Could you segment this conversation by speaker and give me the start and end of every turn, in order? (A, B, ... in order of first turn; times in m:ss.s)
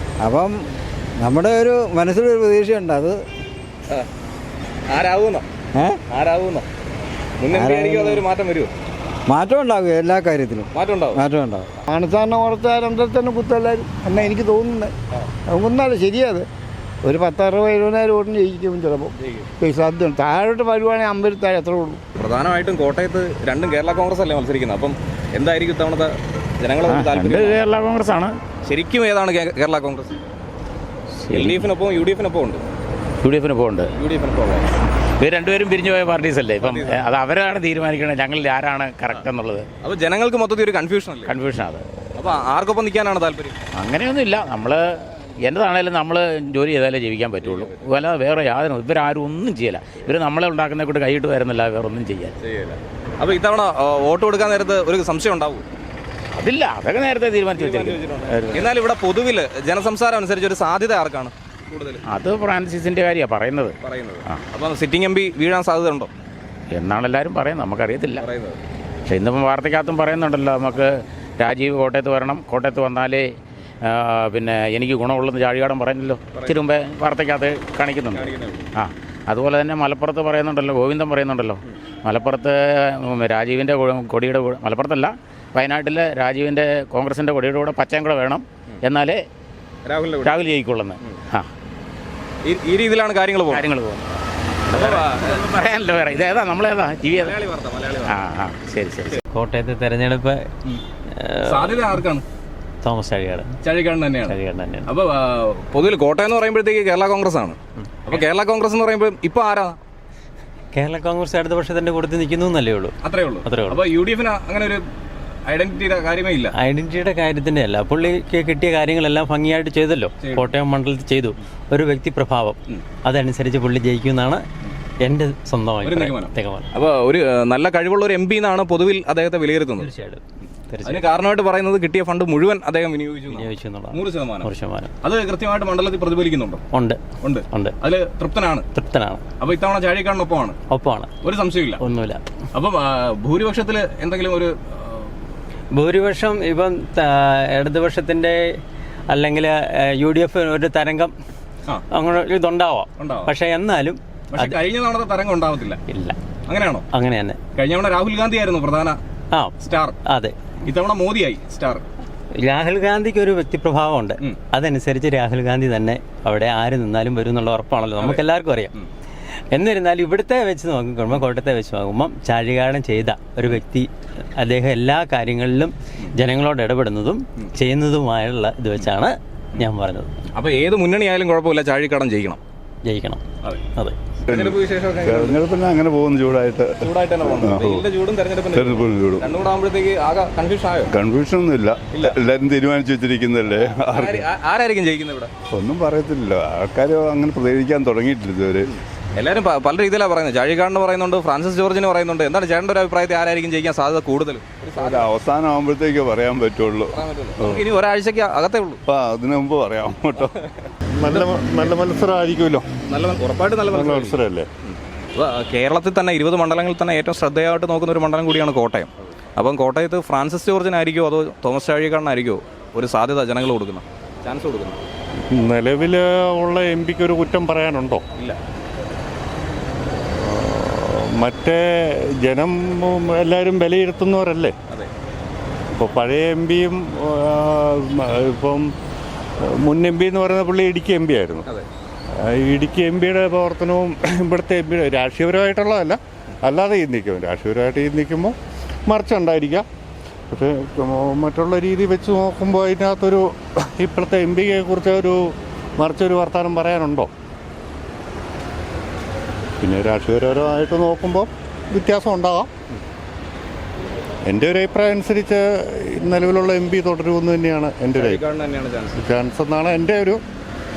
0:00.2-0:00.6 A
0:01.2-0:03.2 A
0:04.9-0:05.4 B
0:05.7-0:06.0 A
0:06.1-0:06.6 B
0:07.4-0:08.7 B
0:07.5-0:08.2 A
0:09.3-0:11.7 A
0:10.7-0:11.2 B
0:11.9-0:14.9 C
0:15.5-0:16.5 C
0:17.0-0:22.0 C
0:19.2-0:19.5 B
0:22.2-0:27.6 B
0:26.9-0:28.3 D
0:28.6-0:30.2 B
0:31.2-0:31.7 D
0:31.3-0:32.6 B
0:33.2-0:33.9 D
0:34.0-0:34.7 B
0:35.2-0:39.7 D
0:36.6-0:37.0 B
0:39.8-0:41.3 B
0:41.2-0:41.8 D
0:42.2-0:43.6 B
0:43.8-0:52.3 D
0:47.4-0:47.8 B
0:52.4-0:55.6 B
0:56.4-0:58.7 D
0:57.6-1:02.0 B
1:02.1-1:03.8 D
1:03.8-1:06.1 B
1:06.7-1:08.2 D
1:08.2-1:08.6 B
1:09.1-1:13.3 D
1:13.8-1:29.2 D
1:18.1-1:18.6 B
1:29.8-1:30.4 B
1:30.2-1:31.5 D
1:32.4-1:33.6 B
1:33.5-1:34.0 D
1:34.7-1:37.3 D
1:34.7-1:35.9 B
1:37.2-1:38.1 B
1:38.0-1:39.2 D
1:39.3-1:40.5 E
1:41.2-1:42.0 E
1:41.5-1:42.2 B
1:42.8-1:43.5 E
1:43.6-1:44.3 B
1:44.2-1:44.9 E
1:44.9-1:49.8 B
1:50.7-1:53.8 E
1:53.0-1:54.8 B
1:55.5-1:56.5 B
1:56.5-2:04.4 E
2:00.2-2:00.5 B
2:05.0-2:06.7 E
2:05.8-2:09.9 B
2:09.8-2:11.1 E
2:10.8-2:14.5 B
2:13.3-2:14.9 E
2:15.0-2:16.6 B
2:16.7-2:17.0 E
2:17.2-2:18.6 B
2:18.7-2:19.2 E
2:19.4-2:20.6 B
2:20.7-2:21.1 E
2:21.2-2:21.8 B
2:21.8-2:22.2 E
2:22.5-2:25.1 B
2:25.7-2:28.4 E
2:29.1-2:31.1 E
2:31.9-2:34.6 E
2:33.0-2:33.3 B
2:34.3-2:35.8 B
2:35.9-2:36.2 E
2:36.5-2:36.8 B
2:36.9-2:37.4 E
2:37.6-2:39.0 B
2:39.6-2:40.0 B
2:40.0-2:40.3 E
2:40.6-2:41.8 B
2:42.4-2:48.7 E
2:48.0-2:48.2 B
2:49.5-2:53.9 E
2:54.4-3:00.2 E
3:00.3-3:02.4 B
3:02.8-3:03.2 E
3:04.3-3:07.8 F
3:04.3-3:05.4 B
3:06.8-3:10.9 B
3:08.5-3:09.4 F
3:10.9-3:14.2 F
3:13.9-3:15.3 B
3:15.5-3:18.7 F
3:18.7-3:25.1 B
3:24.8-3:27.6 F
3:26.9-3:28.8 B
3:28.9-3:30.3 F
3:31.0-3:32.6 G
3:32.9-3:44.8 B
3:33.7-3:34.5 G
3:45.3-3:48.0 G
3:50.2-3:51.6 G
3:52.2-3:54.5 G
3:55.7-3:58.6 G
3:59.6-4:01.4 G
4:02.4-4:08.3 G
4:08.9-4:09.6 G
4:10.3-4:13.2 G
4:13.8-4:15.1 G
4:15.8-4:17.1 G
4:19.6-4:22.5 G
4:24.3-4:25.4 G
4:25.9-4:28.2 G
4:28.0-4:29.0 B
4:29.0-4:30.2 G